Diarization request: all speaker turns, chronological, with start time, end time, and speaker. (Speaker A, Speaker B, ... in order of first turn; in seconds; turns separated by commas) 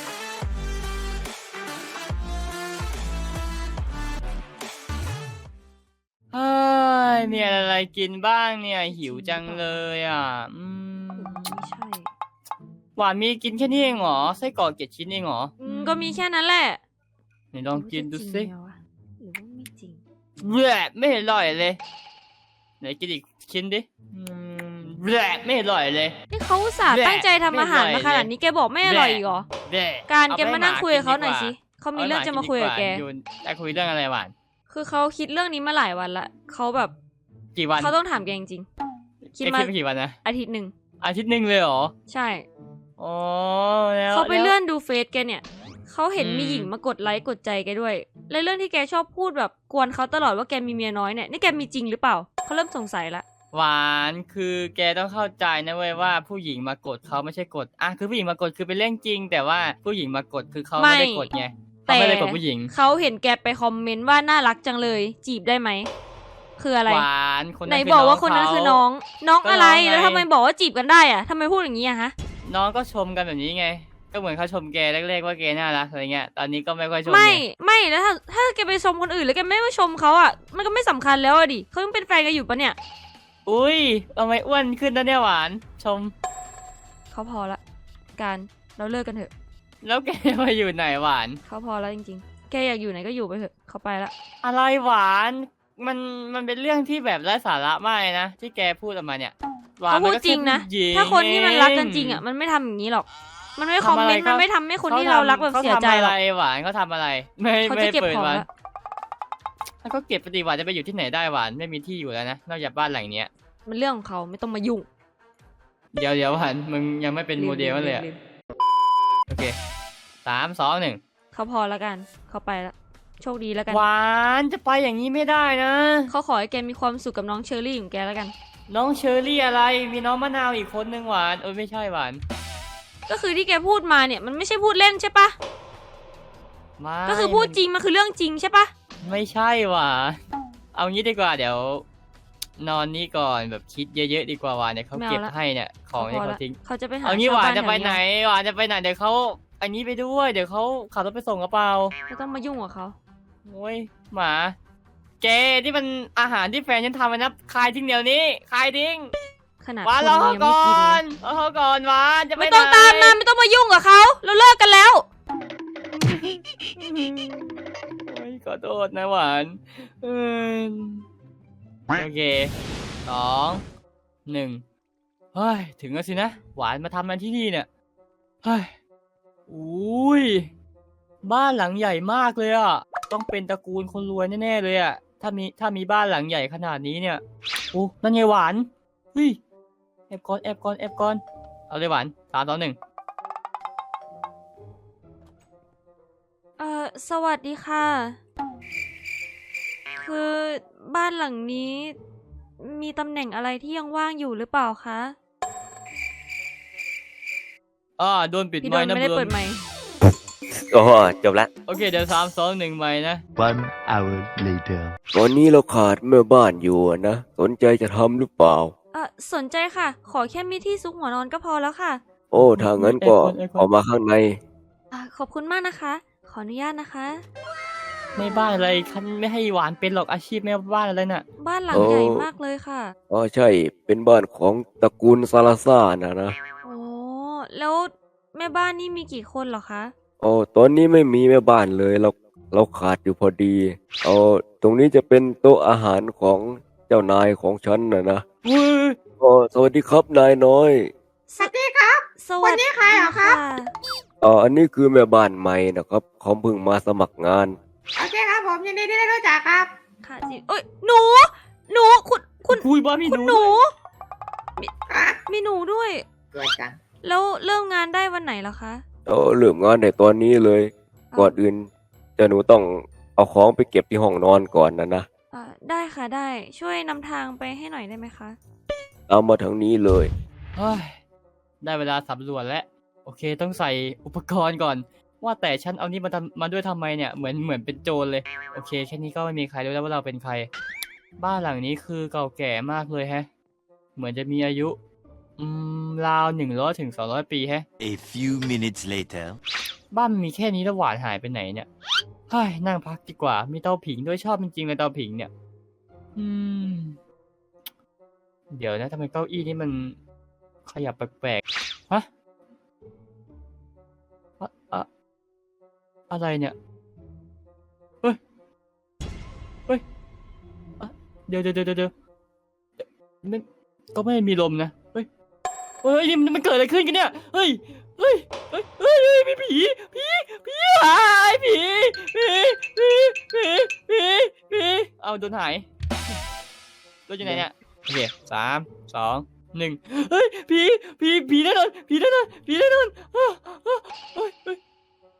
Speaker A: 6.3-11.6, Speaker B: 8.9-9.8, Speaker B: 11.2-12.1, Speaker A: 13.0-16.2, Speaker B: 15.6-16.8, Speaker A: 17.5-18.5, Speaker B: 17.7-20.0, Speaker A: 20.4-21.8, Speaker A: 22.8-26.2, Speaker B: 26.3-29.4, Speaker A: 26.9-28.3, Speaker A: 28.8-34.3, Speaker B: 30.1-33.0, Speaker B: 34.7-36.9, Speaker A: 37.5-37.9, Speaker B: 37.8-38.6, Speaker A: 39.4-40.2, Speaker B: 39.4-39.7, Speaker B: 40.2-40.7, Speaker A: 41.0-41.9, Speaker B: 42.1-42.5, Speaker A: 43.0-44.5, Speaker B: 44.1-53.2, Speaker A: 46.2-46.7, Speaker A: 53.5-62.7, Speaker B: 60.8-61.3, Speaker B: 61.9-65.9, Speaker B: 66.6-67.0, Speaker A: 66.8-68.8, Speaker B: 67.7-72.1, Speaker A: 69.4-70.3, Speaker A: 72.5-77.4, Speaker B: 77.0-82.8, Speaker A: 83.5-86.1, Speaker B: 87.1-87.6, Speaker B: 88.2-89.3, Speaker A: 89.8-91.4, Speaker B: 91.5-94.1, Speaker A: 94.4-102.2, Speaker B: 99.9-106.1, Speaker A: 103.8-108.4, Speaker B: 107.7-108.5, Speaker A: 109.8-113.3, Speaker B: 113.7-114.9, Speaker A: 115.9-118.0, Speaker B: 117.4-118.2, Speaker A: 119.3-119.5, Speaker A: 120.2-121.0, Speaker B: 121.3-123.8, Speaker A: 123.7-126.1, Speaker B: 126.1-128.3, Speaker A: 128.7-132.2, Speaker B: 133.1-135.4, Speaker A: 136.8-137.6, Speaker B: 137.1-138.7, Speaker A: 139.0-140.2, Speaker A: 140.7-141.8, Speaker A: 142.6-151.9, Speaker B: 144.9-145.3, Speaker B: 145.9-148.0, Speaker B: 152.1-152.9, Speaker A: 153.4-154.5, Speaker A: 155.2-159.1, Speaker B: 159.6-161.0, Speaker A: 159.8-163.2, Speaker B: 162.4-165.1, Speaker A: 165.9-167.5, Speaker A: 168.1-171.0, Speaker A: 171.9-172.5, Speaker A: 173.1-173.6, Speaker A: 174.3-174.6, Speaker A: 175.3-177.7, Speaker A: 178.4-178.7, Speaker A: 179.5-180.5, Speaker A: 181.2-187.2, Speaker A: 187.7-189.4, Speaker A: 190.1-192.8, Speaker B: 196.6-198.2, Speaker B: 200.0-201.9, Speaker B: 202.6-205.2, Speaker A: 208.0-209.3, Speaker B: 208.6-209.6, Speaker C: 210.5-211.5, Speaker A: 211.7-213.2, Speaker D: 213.3-215.0, Speaker C: 215.1-218.7, Speaker B: 218.9-222.0, Speaker C: 222.3-224.4, Speaker A: 222.3-223.7, Speaker B: 224.9-227.2, Speaker A: 228.1-231.2, Speaker B: 231.4-232.9, Speaker C: 231.7-232.3, Speaker C: 233.1-236.3, Speaker B: 236.6-239.9, Speaker C: 240.2-248.2, Speaker A: 248.4-249.0, Speaker C: 249.2-250.9, Speaker E: 251.4-253.4, Speaker B: 252.2-253.7, Speaker C: 254.2-257.6, Speaker E: 258.0-259.7, Speaker B: 260.0-263.7, Speaker A: 262.5-263.5, Speaker E: 264.9-265.2, Speaker B: 265.3-266.0, Speaker E: 266.3-266.8, Speaker B: 267.0-268.8, Speaker C: 269.1-271.7, Speaker B: 271.1-271.4, Speaker C: 272.2-275.1, Speaker B: 275.3-278.4, Speaker C: 279.1-280.1, Speaker A: 280.5-281.0, Speaker A: 281.6-290.5, Speaker A: 291.2-293.3, Speaker A: 293.9-294.8, Speaker A: 295.4-297.6, Speaker D: 297.8-299.4, Speaker A: 299.9-301.7, Speaker A: 302.3-305.3, Speaker A: 306.1-307.0, Speaker A: 308.5-309.9, Speaker A: 310.6-312.1, Speaker A: 314.4-314.9, Speaker A: 316.1-316.5, Speaker A: 320.8-321.9, Speaker A: 322.8-325.1, Speaker A: 325.8-335.7, Speaker A: 337.1-344.6